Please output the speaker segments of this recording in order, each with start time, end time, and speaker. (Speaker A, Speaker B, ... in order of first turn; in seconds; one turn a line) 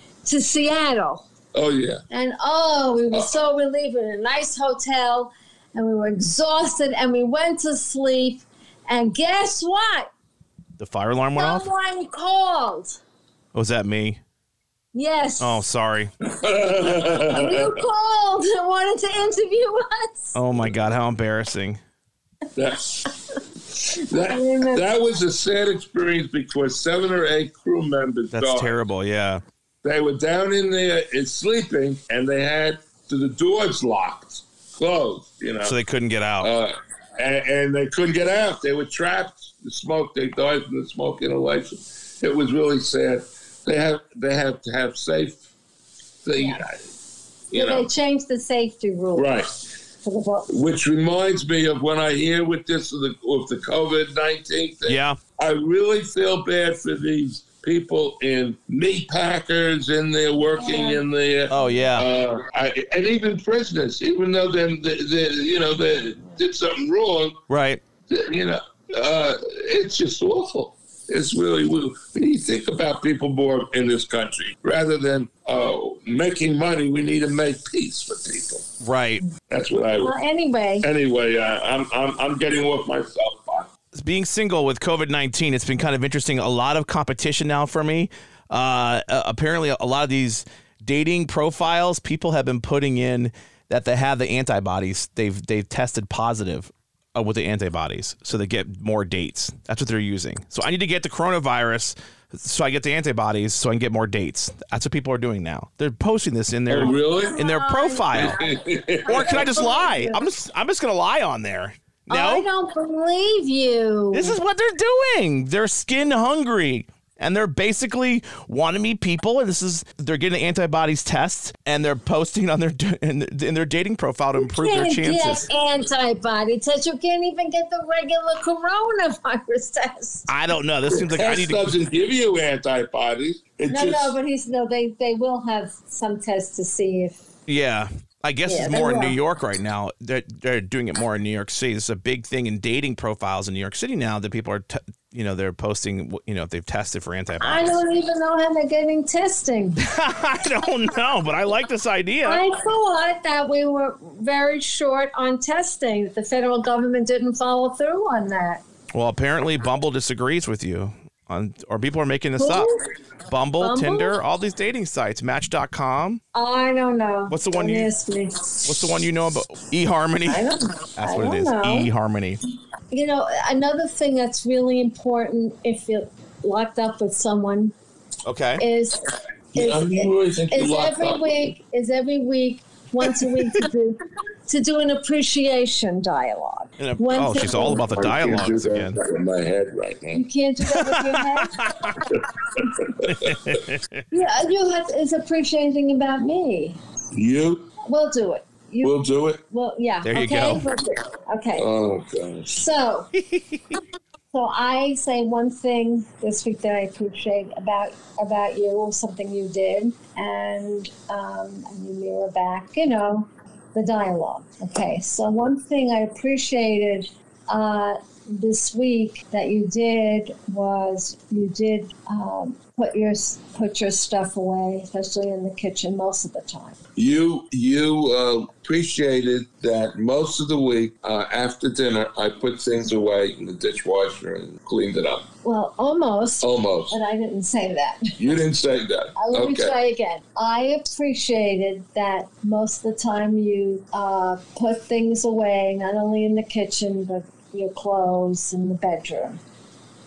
Speaker A: 0.2-1.2
Speaker B: 1.5-2.0
Speaker A: 2.1-10.1
Speaker B: 3.1-3.4
Speaker C: 10.8-11.7
Speaker A: 11.4-13.0
Speaker C: 13.5-14.2
Speaker A: 14.9-15.6
Speaker C: 15.4-16.1
Speaker B: 16.2-17.7
Speaker A: 16.9-20.4
Speaker C: 20.3-21.8
Speaker B: 22.6-28.8
Speaker A: 24.1-24.9
Speaker C: 28.3-29.4
Speaker B: 29.8-35.8
Speaker C: 35.6-36.5
Speaker B: 36.4-45.4
Speaker B: 46.2-46.8
Speaker A: 46.4-46.6
Speaker B: 47.5-47.9
Speaker A: 47.5-49.4
Speaker B: 49.1-49.5
Speaker A: 50.0-50.5
Speaker B: 50.5-67.4
Speaker C: 54.9-55.2
Speaker A: 60.6-61.0
Speaker C: 61.5-62.1
Speaker C: 67.5-67.8
Speaker B: 68.1-78.7
Speaker C: 78.8-79.2
Speaker B: 79.5-80.1
Speaker A: 80.0-80.9
Speaker B: 80.8-83.7
Speaker C: 83.9-108.4
Speaker B: 106.7-107.4
Speaker A: 106.8-110.3
Speaker B: 108.1-109.7
Speaker C: 109.1-112.4
Speaker A: 112.1-114.4
Speaker C: 114.1-125.5
Speaker A: 124.4-130.3
Speaker C: 130.3-131.7
Speaker B: 130.9-134.1
Speaker A: 133.7-137.2
Speaker C: 137.5-147.8
Speaker A: 138.4-139.2
Speaker A: 147.4-149.8
Speaker C: 149.8-152.4
Speaker A: 152.2-158.6
Speaker C: 158.9-162.7
Speaker A: 162.4-162.8
Speaker C: 163.3-166.2
Speaker A: 163.6-164.2
Speaker A: 166.3-169.1
Speaker C: 167.3-167.9
Speaker C: 168.7-172.4
Speaker A: 170.2-171.9
Speaker A: 172.9-177.7
Speaker C: 178.2-178.6
Speaker A: 178.6-187.9
Speaker B: 179.5-181.5
Speaker C: 186.8-189.0
Speaker B: 187.4-190.2
Speaker A: 190.1-191.7
Speaker C: 190.6-192.0
Speaker B: 192.6-193.4
Speaker C: 193.0-194.0
Speaker A: 194.1-196.8
Speaker B: 197.1-197.7
Speaker A: 197.9-201.7
Speaker B: 198.8-199.4
Speaker C: 200.0-200.6
Speaker B: 201.6-202.6
Speaker A: 202.6-203.1
Speaker C: 203.1-203.7
Speaker A: 204.3-226.8
Speaker B: 226.9-235.2
Speaker A: 235.4-238.2
Speaker B: 236.4-237.0
Speaker B: 238.2-239.7
Speaker A: 239.2-249.4